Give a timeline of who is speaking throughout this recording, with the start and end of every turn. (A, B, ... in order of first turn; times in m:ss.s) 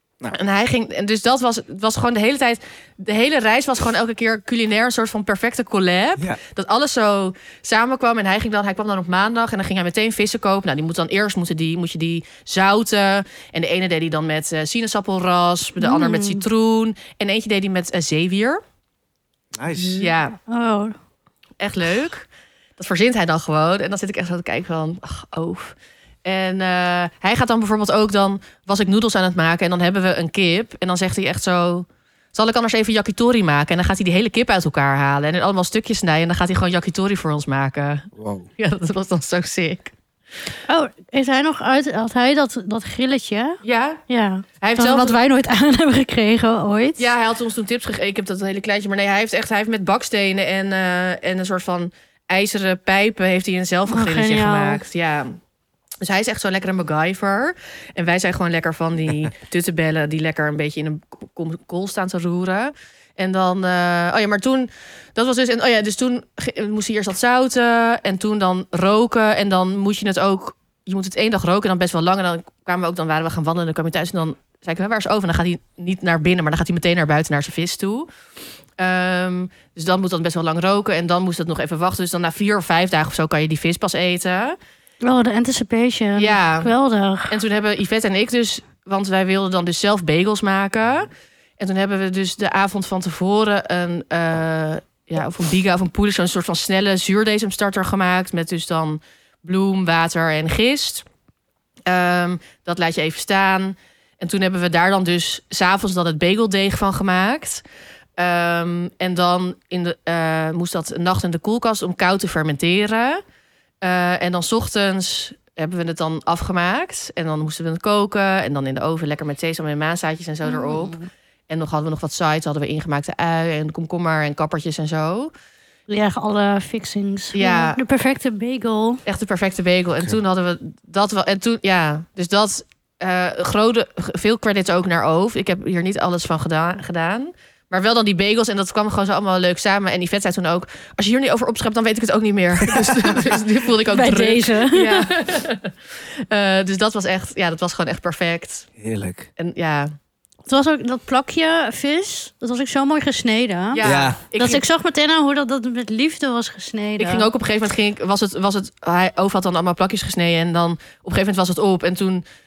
0:00.3-0:18.6 A
0:15.8-0:16.4 B
0:19.5-0:20.1 C
0:19.7-0:21.0 B
0:20.0-0:20.4 A
0:21.6-0:22.3 A
0:22.8-0:39.9 A
0:38.2-0:38.5 C
0:40.7-0:47.1 B
0:43.6-0:44.0 A
0:44.6-0:45.2 A
0:47.0-0:55.4 A
0:53.9-0:54.8 B
0:56.0-1:18.1 A
1:18.8-1:24.6 A
1:25.0-1:27.4 B
1:26.2-1:26.7 A
1:27.3-1:31.1 A
1:31.6-1:41.0 A
1:41.8-1:47.6 A
1:48.2-1:53.2 A
1:53.8-2:01.0 A
2:00.4-2:01.0 B
2:01.5-2:05.3 A
2:05.9-2:09.0 B
2:07.3-2:07.8 A
2:09.0-2:28.7 A
2:22.7-2:23.2 C
2:23.8-2:25.2 B
2:28.8-2:29.3 C
2:29.4-2:29.9 A
2:30.5-2:37.3 B
2:33.7-2:34.6 A
2:33.8-2:34.2 C
2:37.0-2:42.2 A